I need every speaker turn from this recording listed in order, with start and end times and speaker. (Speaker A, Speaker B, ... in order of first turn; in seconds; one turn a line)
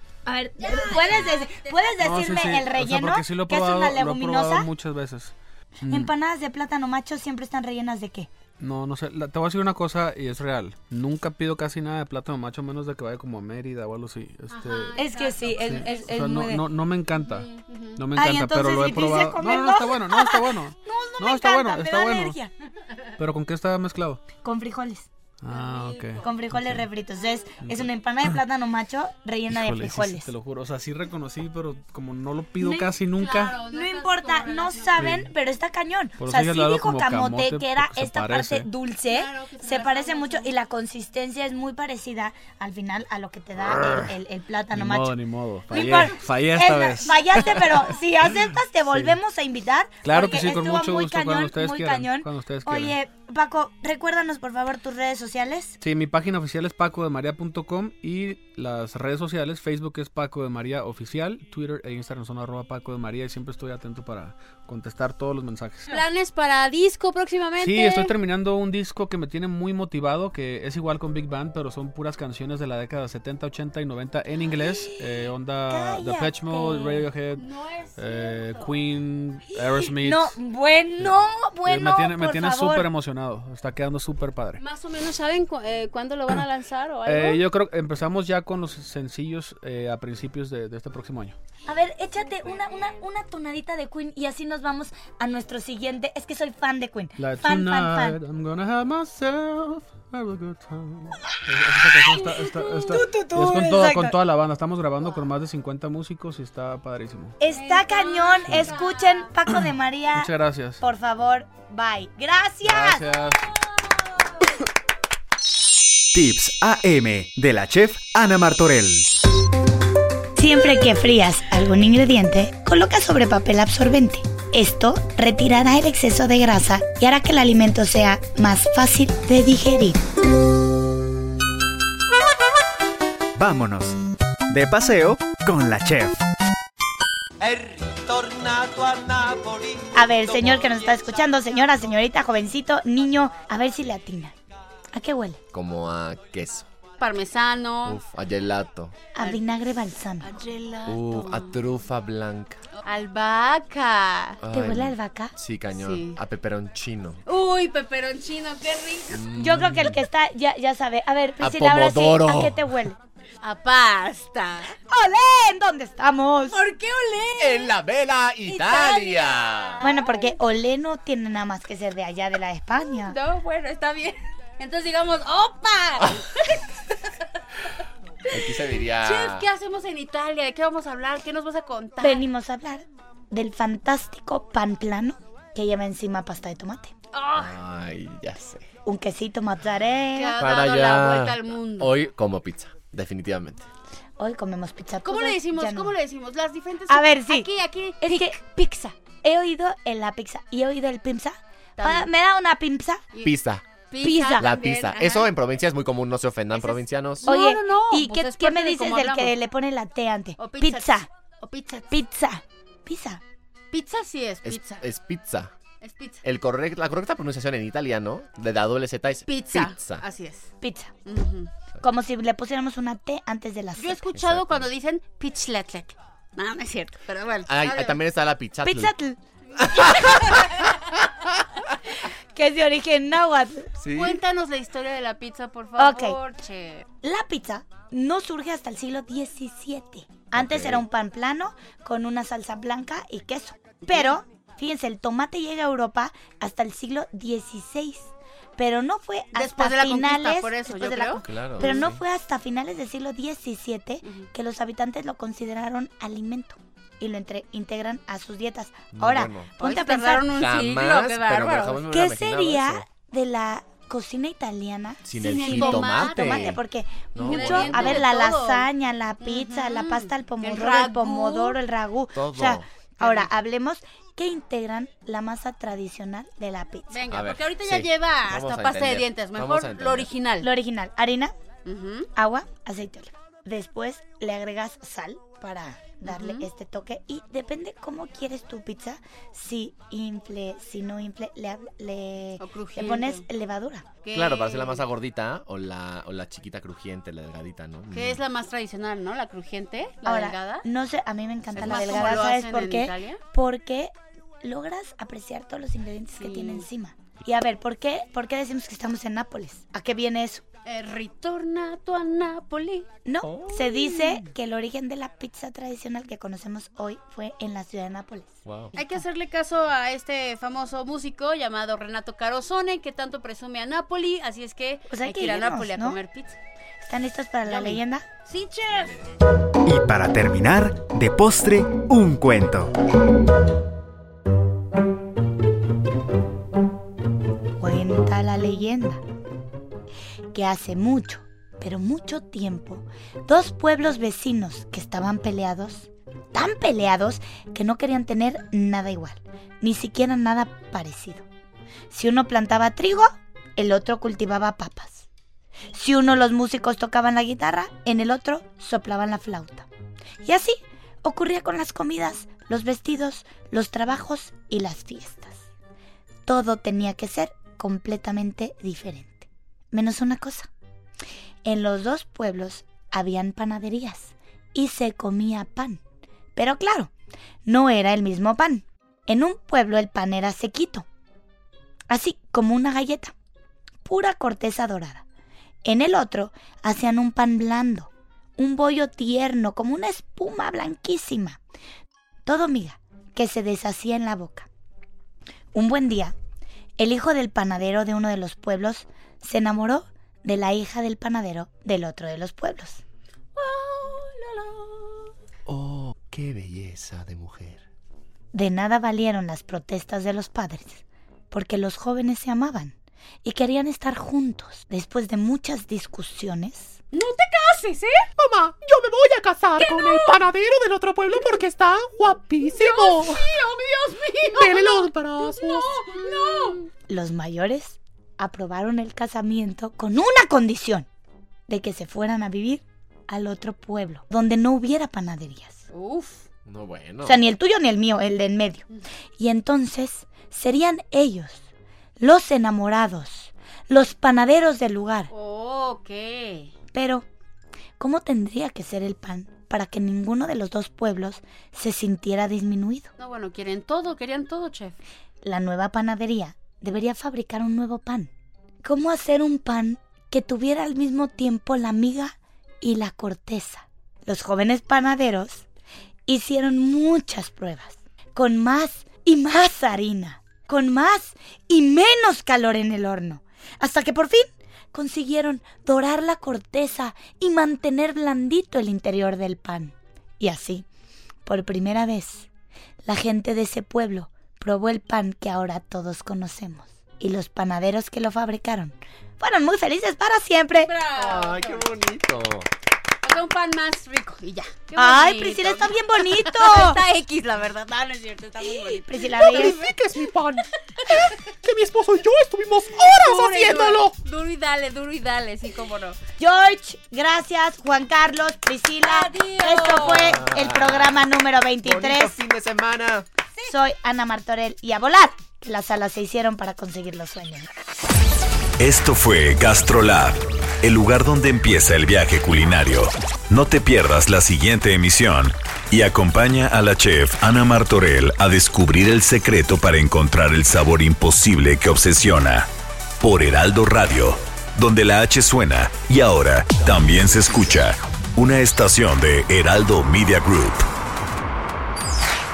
Speaker A: 0.2-4.7
Speaker B: 0.6-1.9
Speaker C: 2.0-6.1
Speaker A: 5.9-8.3
Speaker C: 8.6-22.4
Speaker B: 14.5-16.0
Speaker A: 14.9-16.6
Speaker B: 17.2-18.0
Speaker A: 18.1-22.5
Speaker C: 23.2-24.2
Speaker A: 24.4-25.1
Speaker C: 25.4-26.9
Speaker B: 25.5-26.2
Speaker A: 26.2-30.3
Speaker C: 27.6-27.9
Speaker C: 29.5-33.6
Speaker A: 32.6-32.9
Speaker B: 33.2-35.0
Speaker A: 33.6-55.8
Speaker C: 35.0-35.3
Speaker C: 36.2-38.7
Speaker B: 39.1-40.5
Speaker C: 43.7-44.1
Speaker C: 44.7-47.9
Speaker C: 48.9-49.2
Speaker C: 50.0-53.0
Speaker C: 55.8-66.0
Speaker B: 65.9-68.1
Speaker C: 67.6-80.3
Speaker A: 74.8-75.1
Speaker A: 75.7-77.1
Speaker B: 77.3-78.7
Speaker A: 79.7-82.9
Speaker C: 81.0-84.6
Speaker B: 84.6-87.4
Speaker C: 87.0-91.3
Speaker A: 91.7-98.2
Speaker C: 97.2-107.4
Speaker A: 101.8-104.2
Speaker A: 107.4-113.1
Speaker B: 107.5-109.3
Speaker C: 108.5-108.7
Speaker C: 110.1-110.8
Speaker C: 112.6-113.5
Speaker D: 116.1-119.1
Speaker A: 120.4-130.0
Speaker D: 133.3-134.0
Speaker D: 134.5-136.2
Speaker E: 137.4-139.7
Speaker A: 139.9-144.3
Speaker A: 144.9-145.4
Speaker E: 145.5-146.7
Speaker B: 147.0-148.0
Speaker E: 147.8-149.0
Speaker A: 149.1-150.3
Speaker B: 150.2-151.5
Speaker E: 150.8-152.6
Speaker B: 152.8-154.4
Speaker E: 154.4-157.2
Speaker A: 154.5-155.3
Speaker B: 155.7-156.2
Speaker B: 157.2-159.2
Speaker E: 159.1-160.0
Speaker A: 159.4-163.0
Speaker E: 161.4-162.8
Speaker B: 163.4-164.7
Speaker A: 164.8-166.6
Speaker B: 166.5-167.8
Speaker E: 167.4-169.8
Speaker B: 168.4-170.3
Speaker A: 169.8-173.1
Speaker B: 173.1-177.0
Speaker E: 178.3-179.4
Speaker B: 178.4-182.3
Speaker A: 182.0-186.9
Speaker B: 187.1-187.5
Speaker E: 187.3-188.7
Speaker A: 188.8-190.4
Speaker B: 190.1-192.0
Speaker E: 190.4-193.7
Speaker A: 194.2-195.9
Speaker B: 195.0-198.4
Speaker A: 196.9-197.5
Speaker A: 198.0-203.1
Speaker B: 201.8-202.1
Speaker E: 203.2-203.7
Speaker B: 203.9-205.3
Speaker A: 204.0-204.5
Speaker E: 204.4-207.3
Speaker B: 206.5-209.3
Speaker A: 207.2-211.1
Speaker B: 210.4-211.9
Speaker A: 211.9-213.2
Speaker B: 213.7-214.8
Speaker E: 214.4-215.5
Speaker B: 215.8-216.2
Speaker E: 216.2-220.0
Speaker B: 219.2-220.5
Speaker A: 220.6-220.9
Speaker B: 221.1-221.5
Speaker A: 221.8-224.1
Speaker B: 223.8-228.0
Speaker E: 224.1-224.7
Speaker E: 227.5-228.9
Speaker A: 228.6-229.2
Speaker E: 229.6-230.8
Speaker B: 229.8-230.5
Speaker A: 232.3-233.7
Speaker E: 233.8-234.2
Speaker B: 233.9-236.8
Speaker A: 235.8-236.2
Speaker A: 237.0-260.3
Speaker E: 240.3-240.8
Speaker B: 243.8-244.1
Speaker B: 249.3-251.8
Speaker E: 251.2-252.0
Speaker E: 258.9-259.6
Speaker B: 259.6-261.8
Speaker E: 260.4-262.8
Speaker A: 261.9-277.0
Speaker E: 265.0-266.6
Speaker B: 265.2-266.6
Speaker E: 267.1-268.1
Speaker B: 267.2-268.7
Speaker B: 269.2-271.6
Speaker E: 272.1-273.1
Speaker B: 276.9-280.5
Speaker E: 277.1-280.1
Speaker A: 280.4-281.3
Speaker B: 281.6-282.1
Speaker A: 282.1-293.9
Speaker B: 286.1-286.5
Speaker B: 292.4-293.2
Speaker B: 294.0-294.8
Speaker E: 294.1-298.2
Speaker B: 297.9-300.6
Speaker A: 300.0-310.4
Speaker B: 301.6-303.2
Speaker B: 306.2-306.6
Speaker B: 310.6-312.9
Speaker A: 313.1-318.3
Speaker B: 313.9-314.2
Speaker E: 318.4-318.7
Speaker B: 318.7-326.4
Speaker A: 324.9-326.0
Speaker A: 326.8-328.1
Speaker B: 327.5-329.0
Speaker D: 329.6-332.7
Speaker A: 337.6-339.0
Speaker A: 340.3-351.2
Speaker A: 351.9-355.1
Speaker A: 355.7-359.7
Speaker A: 360.2-365.5
Speaker A: 366.2-370.5
Speaker A: 371.4-375.8
Speaker A: 376.4-376.9
Speaker A: 377.4-380.9
Speaker A: 381.9-383.1
Speaker A: 383.8-385.0
Speaker A: 385.6-391.4
Speaker A: 392.2-394.5
Speaker A: 395.5-396.1
Speaker A: 396.8-402.8
Speaker B: 403.4-405.0
Speaker E: 405.5-407.6
Speaker A: 408.3-416.8
Speaker B: 416.9-418.1
Speaker F: 418.2-423.3
Speaker B: 419.6-420.2
Speaker B: 422.5-426.7
Speaker F: 424.3-425.8
Speaker A: 426.9-430.9
Speaker A: 431.5-435.6
Speaker B: 435.7-436.3
Speaker E: 436.4-437.2
Speaker A: 437.0-438.6
Speaker A: 439.2-441.4
Speaker A: 442.0-445.1
Speaker B: 445.1-446.5
Speaker A: 446.7-447.1
Speaker A: 447.8-452.9
Speaker B: 453.0-454.8
Speaker A: 455.2-458.1
Speaker A: 458.6-465.4
Speaker A: 466.1-480.6
Speaker A: 481.2-482.3
Speaker A: 482.8-490.7
Speaker B: 490.5-491.7
Speaker E: 490.9-492.5
Speaker B: 493.0-499.7
Speaker A: 494.8-496.8
Speaker A: 498.7-499.6
Speaker F: 499.2-503.9
Speaker B: 502.8-506.0
Speaker A: 506.2-512.1
Speaker B: 508.8-510.2
Speaker E: 509.7-511.0
Speaker E: 511.6-513.1
Speaker A: 513.5-517.5
Speaker G: 518.6-532.5
Speaker G: 533.0-540.6